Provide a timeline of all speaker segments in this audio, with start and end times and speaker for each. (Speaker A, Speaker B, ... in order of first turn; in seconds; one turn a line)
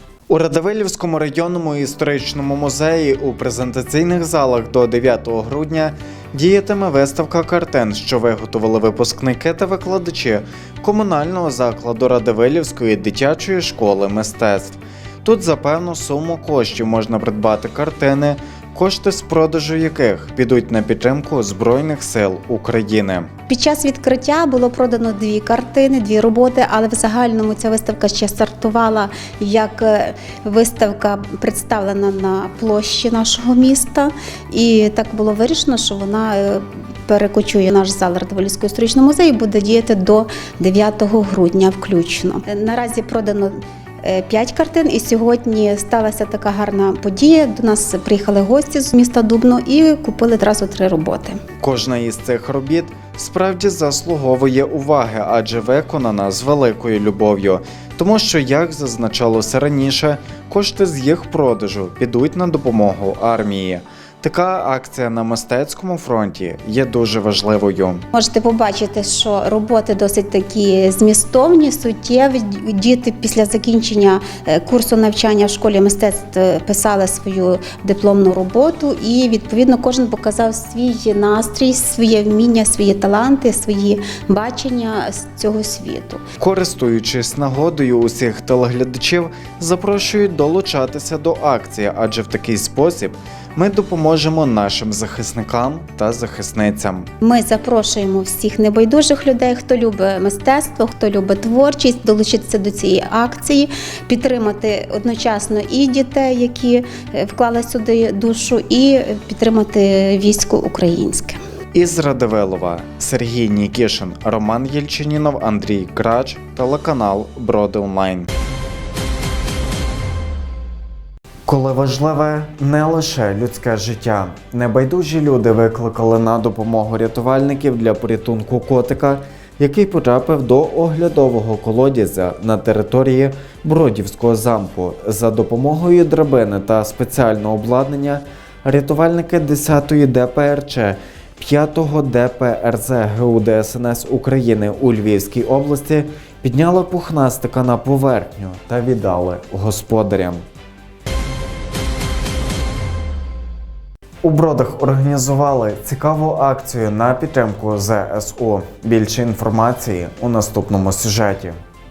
Speaker A: 0.3-23.3
Speaker B: 23.5-51.4
Speaker A: 51.6-68.0
Speaker B: 68.1-86.2
Speaker A: 86.4-97.1
Speaker B: 97.2-111.4
Speaker A: 111.7-118.3
Speaker A: 121.5-150.4
Speaker A: 154.2-161.6